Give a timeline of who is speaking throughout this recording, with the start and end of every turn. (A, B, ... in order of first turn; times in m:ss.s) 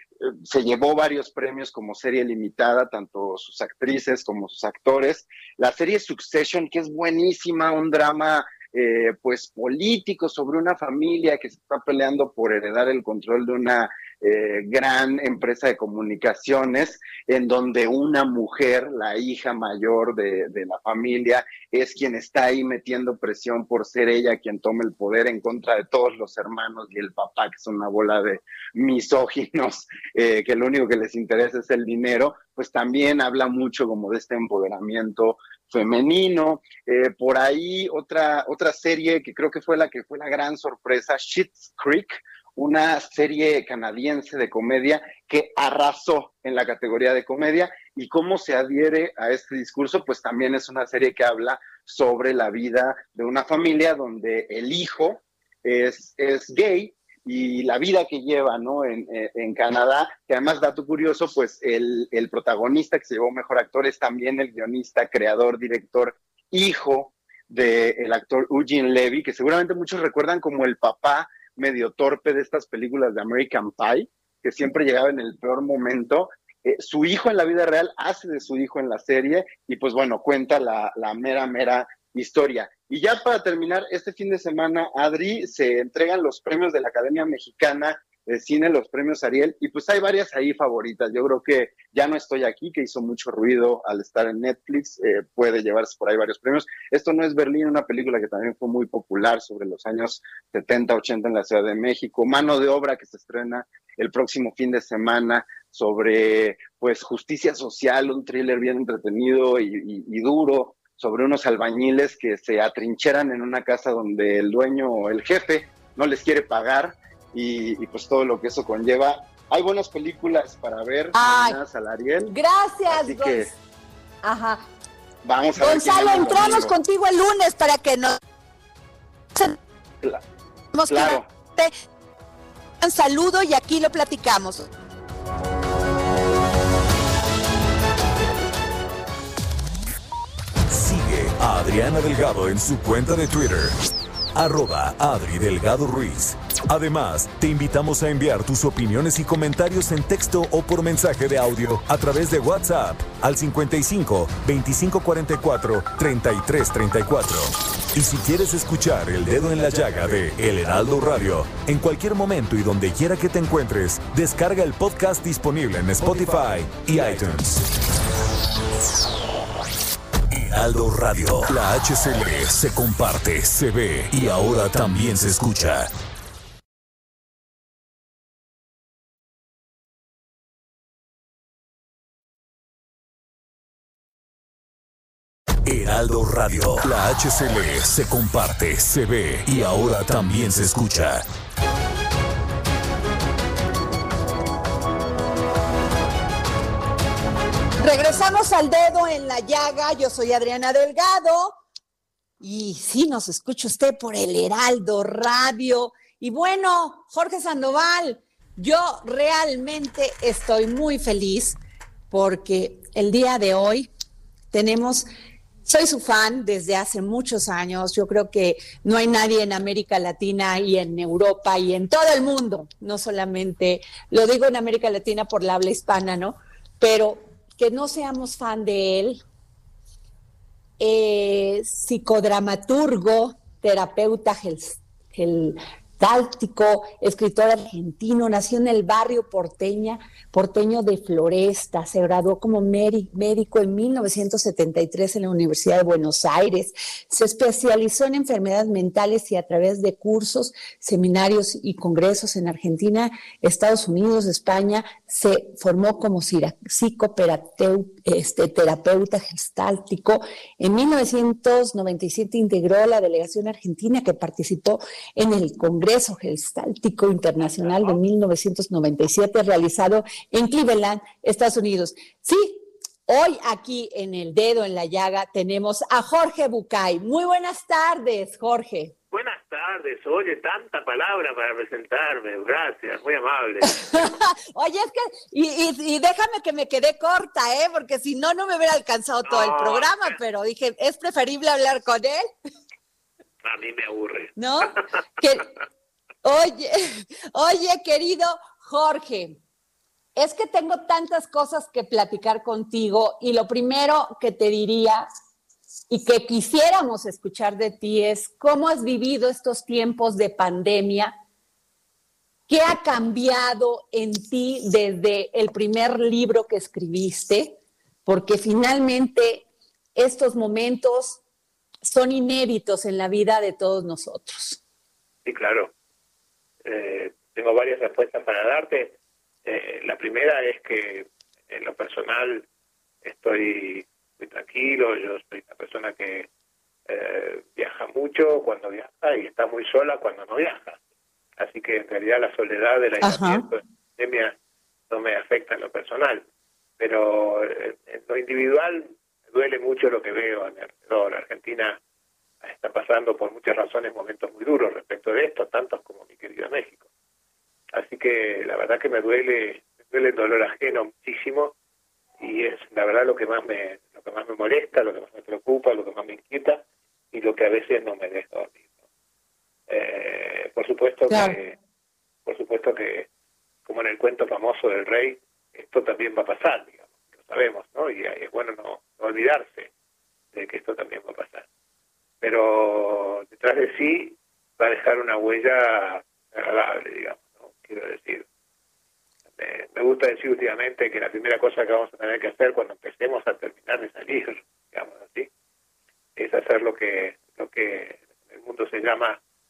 0:00.4-2:02.3 A
2:01.1-2:01.6 B
2:02.3-2:03.5 B
2:02.9-2:03.5 A
2:04.2-2:04.6 B
2:05.2-2:06.7 A
2:05.6-2:08.2 B
2:10.7-2:11.7 B
2:10.9-2:11.3 A
2:12.8-2:14.7 B
2:20.7-2:23.8 C
2:24.3-2:47.7 C
2:50.3-2:55.9 C
3:05.6-3:11.2 C
3:17.8-3:21.6 B
3:22.4-3:31.6 B
3:32.1-3:33.9 B
3:34.5-3:35.1 B
3:35.6-3:49.2 B
3:50.8-4:38.9 B
4:27.4-4:28.0 D
4:39.1-4:43.8 D
4:43.7-4:52.2 B
4:49.2-4:50.2 D
4:53.4-4:54.8 D
4:54.4-4:55.5 B
4:56.2-4:59.4 B
5:00.2-5:05.1 B
5:05.9-5:11.1 B
5:12.5-5:21.2 B
5:21.8-5:24.6 B
5:25.2-5:25.7 D
5:26.6-5:32.4 D
5:33.0-5:36.3 D
5:36.9-5:40.8 D
5:41.4-5:44.3 D
5:43.0-5:43.4 B
5:44.9-5:46.2 D
5:46.8-5:51.8 D
5:52.4-5:56.8 D
5:57.7-6:01.5 D
6:02.2-6:08.6 D
6:09.7-6:11.6 D
6:11.1-6:11.4 B
6:12.2-6:13.1 D
6:13.6-6:19.7 D
6:20.3-6:21.4 D
6:22.2-6:28.2 D
6:29.4-6:35.3 D
6:36.2-6:39.2 D